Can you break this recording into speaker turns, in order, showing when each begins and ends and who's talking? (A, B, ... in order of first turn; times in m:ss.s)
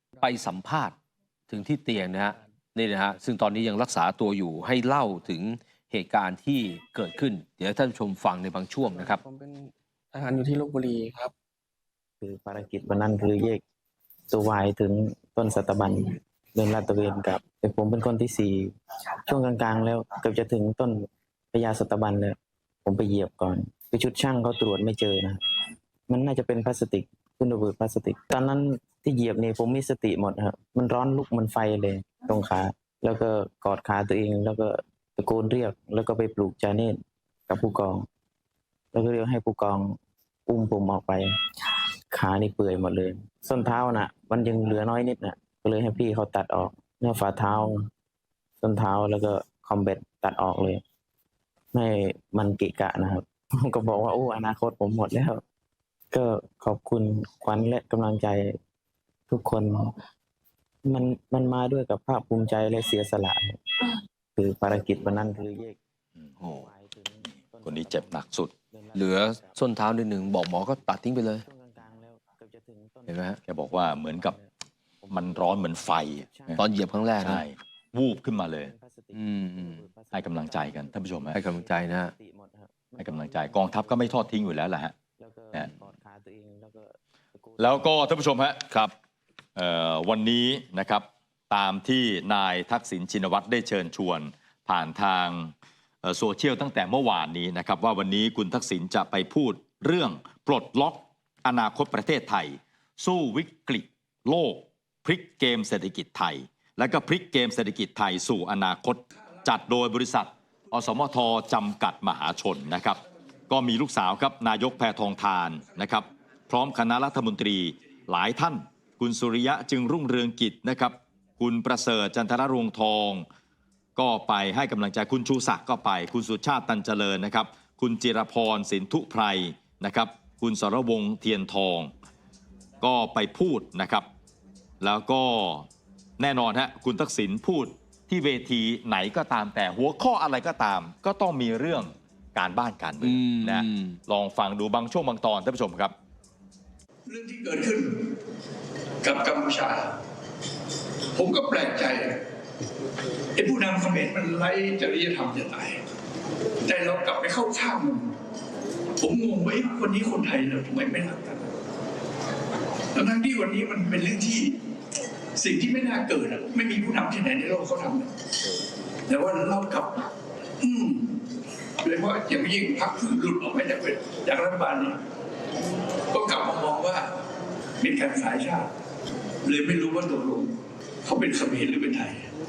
0:00.2-0:01.0 A
0:01.5-0:09.2 A
0:08.8-0:11.3 B
0:12.2-0:13.6 C
0:14.3-0:18.7 C
0:19.2-0:25.4 C
0:26.1-0:38.0 C
0:38.9-0:39.9 C
0:40.5-0:41.3 C
0:42.1-0:47.8 C
0:48.6-0:50.8 C
0:51.7-0:55.4 C
0:56.1-0:58.6 C
0:59.3-0:59.8 C
1:00.8-1:03.6 C
1:04.4-1:05.8 C
1:06.4-1:06.7 A
1:06.5-1:09.6 C
1:07.6-1:08.5 D
1:08.9-1:11.4 A
1:11.4-1:14.5 C
1:13.1-1:13.4 A
1:13.5-1:14.4 D
1:15.0-1:16.6 C
1:15.1-1:16.6 D
1:16.6-1:17.4 A
1:17.2-1:18.7 D
1:18.6-1:24.3 C
1:19.1-1:19.8 A
1:20.1-1:21.4 D
1:21.3-1:22.1 A
1:23.0-1:24.9 D
1:25.2-1:28.0 C
1:27.6-1:28.6 D
1:29.6-2:03.3 D
2:04.0-2:11.9 D
2:12.8-2:14.1 D
2:14.8-2:25.9 D
2:23.0-2:24.0 A
2:27.1-2:27.9 E
2:29.0-2:29.9 E
2:31.1-2:32.2 E
2:33.4-2:35.8 E
2:36.6-2:38.1 E
2:39.0-2:41.4 E
2:42.9-2:44.6 E
2:45.4-2:48.1 E
2:49.1-2:50.1 E
2:50.6-2:51.2 E
2:51.8-2:55.0 E
2:56.1-2:57.1 E
2:57.8-2:58.7 E
2:59.4-3:02.3 E